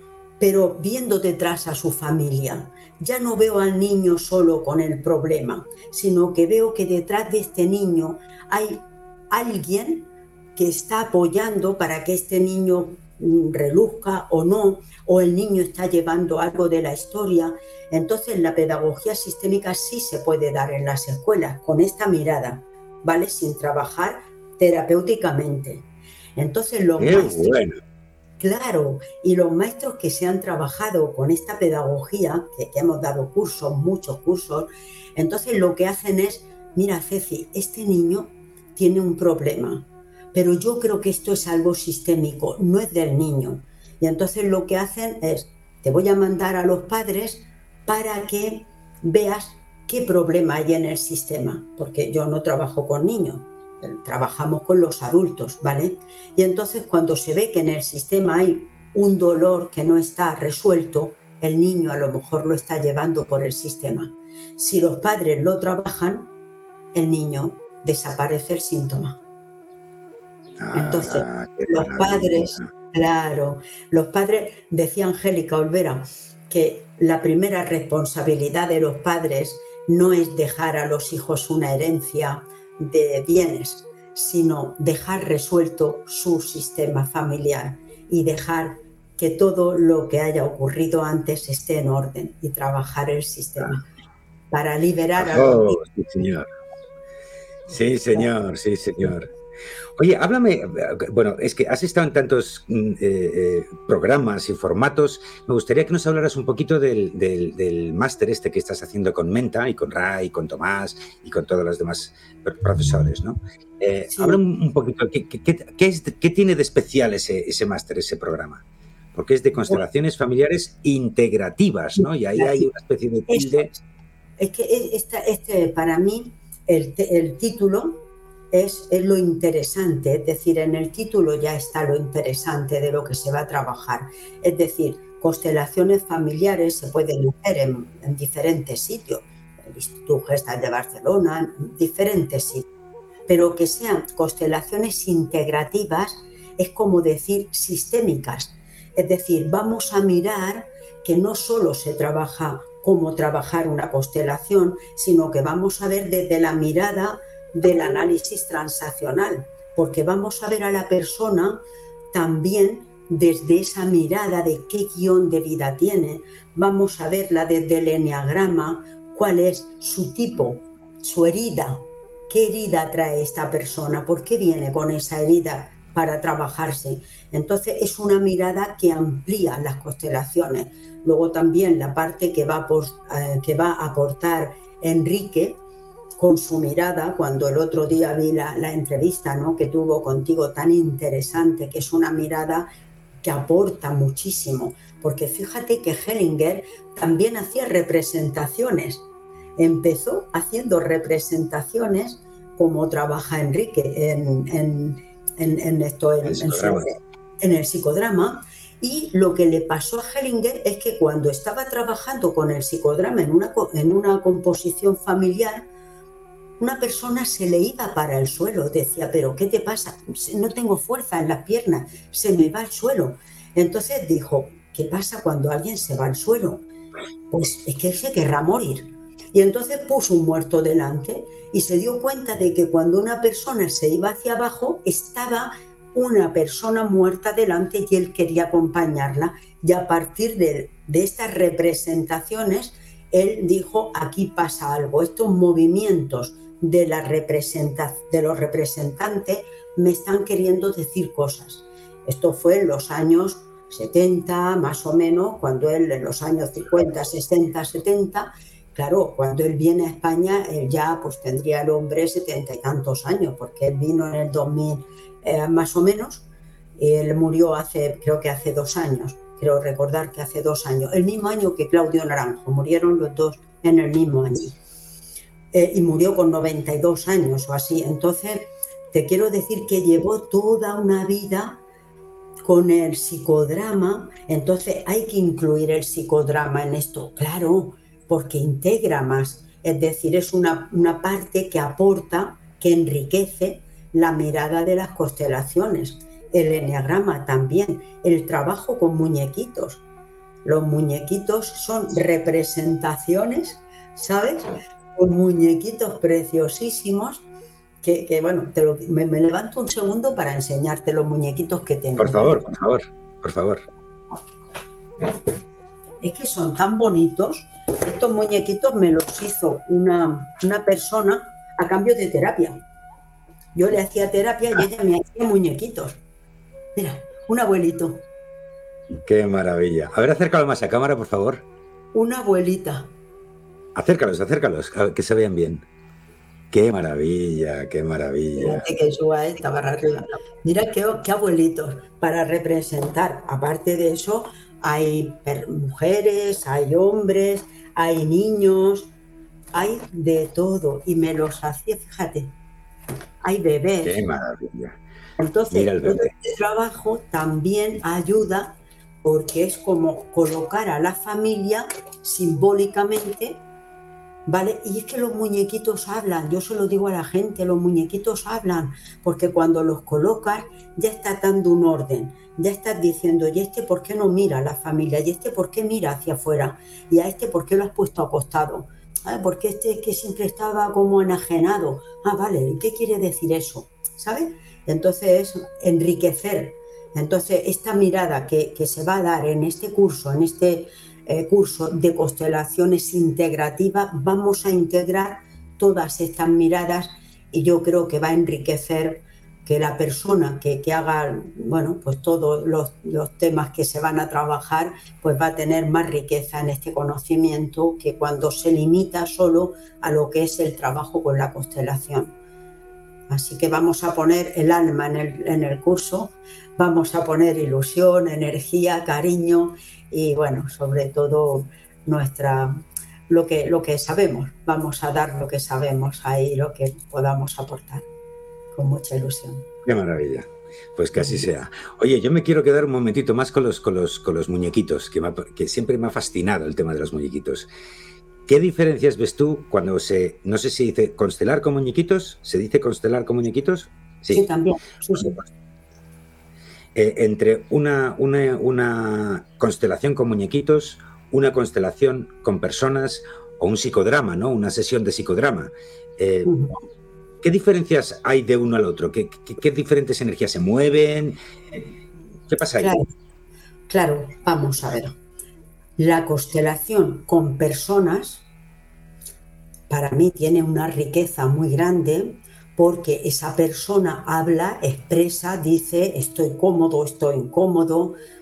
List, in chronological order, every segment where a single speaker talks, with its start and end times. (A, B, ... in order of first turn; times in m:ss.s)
0:00.4-0:27.6 A
0:27.0-0:27.8 B
0:28.4-1:06.3 A
1:06.9-1:09.2 A
1:10.6-1:12.7 B
1:10.7-1:33.8 A
1:34.5-1:35.8 A
1:35.2-1:36.5 B
1:37.7-1:39.3 B
1:40.0-1:58.6 B
1:54.1-1:54.4 A
1:59.1-2:03.7 B
2:02.0-2:02.7 A
2:03.3-2:03.8 A
2:04.4-2:08.0 A
2:08.5-2:22.7 A
2:23.3-2:41.6 A
2:42.1-3:05.6 A
3:06.2-3:12.7 A
3:13.2-3:19.1 A
3:19.6-3:35.7 A
3:26.2-3:26.9 B
3:36.6-3:46.6 A
3:47.3-4:26.3 A
4:26.8-4:34.6 A
4:35.5-4:41.6 A
4:42.4-4:59.8 A
5:00.4-5:07.3 A
5:07.8-5:12.4 A
5:12.0-5:13.6 B
5:16.0-5:22.6 A
5:23.6-5:26.0 A
5:26.8-5:28.0 A
5:29.0-5:31.5 B
5:31.9-5:32.9 A
5:33.8-5:35.6 B
5:36.5-5:38.7 B
5:38.4-5:48.9 A
5:49.5-5:52.3 A
5:53.2-5:54.0 A
5:53.8-5:54.8 B
5:55.2-6:03.4 A
5:55.5-5:56.1 B
6:04.3-6:52.2 A
6:53.1-7:07.9 A
7:08.5-7:09.5 A
7:09.6-7:17.5 B
7:11.0-7:11.3 A
7:18.3-7:24.2 B
7:24.1-7:25.2 A
7:25.0-7:25.3 B
7:26.8-7:36.4 B
7:36.2-7:36.6 A
7:37.2-7:41.2 B
7:42.3-7:42.8 B
7:42.6-7:42.9 A
7:43.7-7:45.0 A
7:45.8-7:48.3 A
7:49.7-7:58.0 A